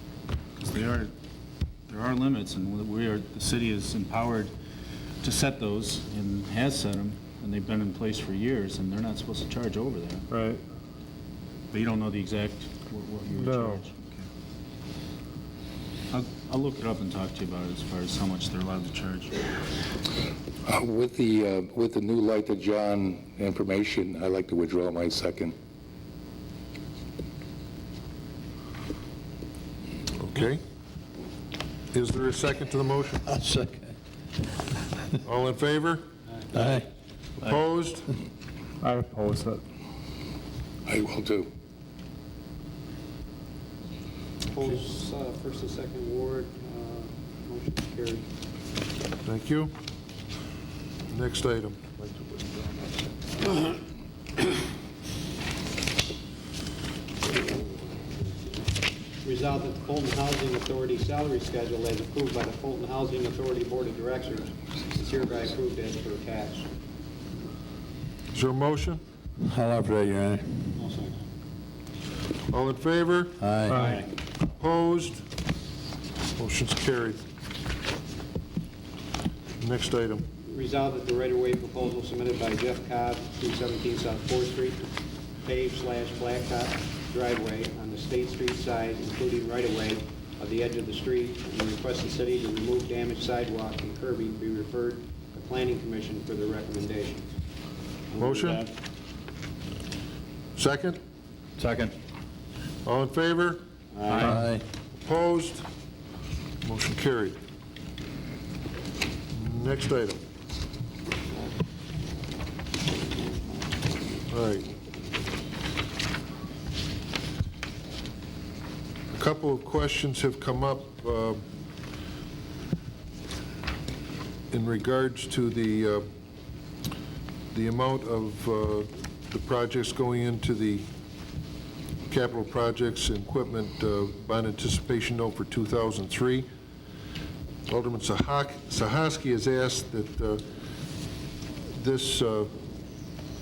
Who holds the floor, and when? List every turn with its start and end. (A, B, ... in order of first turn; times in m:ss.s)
0:00.6-0:01.1 A
0:01.9-0:04.5 A
0:05.2-0:10.3 A
0:10.3-0:10.6 B
0:11.7-0:14.3 A
0:13.3-0:13.8 B
0:16.1-0:19.5 A
0:20.6-0:25.6 C
0:30.2-0:30.6 D
0:31.9-0:33.3 D
0:33.3-0:33.9 E
0:35.2-0:36.1 D
0:36.5-0:36.9 E
0:37.4-0:38.1 D
0:38.8-0:39.6 B
0:40.9-0:41.5 C
0:44.5-0:48.3 F
0:49.2-0:49.7 D
0:51.1-0:51.8 D
0:57.3-0:57.6 F
0:59.2-1:06.7 F
1:08.3-1:09.0 D
1:09.4-1:10.7 E
1:10.8-1:11.2 F
1:12.5-1:13.4 D
1:13.4-1:14.0 E
1:13.7-1:14.0 B
1:13.8-1:14.0 F
1:14.5-1:15.2 D
1:16.4-1:17.2 D
1:19.6-1:20.2 D
1:20.4-1:24.8 F
1:25.4-1:37.3 F
1:38.1-1:38.7 F
1:38.2-1:38.6 D
1:40.6-1:41.0 D
1:41.6-1:41.9 A
1:42.8-1:43.6 D
1:44.2-1:44.6 E
1:45.0-1:45.6 D
1:46.6-1:47.4 D
1:49.3-1:50.2 D
1:54.3-1:54.7 D
1:59.1-2:01.4 D
2:04.5-2:06.1 D
2:07.5-2:10.9 D
2:12.1-2:16.5 D
2:17.7-2:20.4 D
2:21.7-2:22.5 D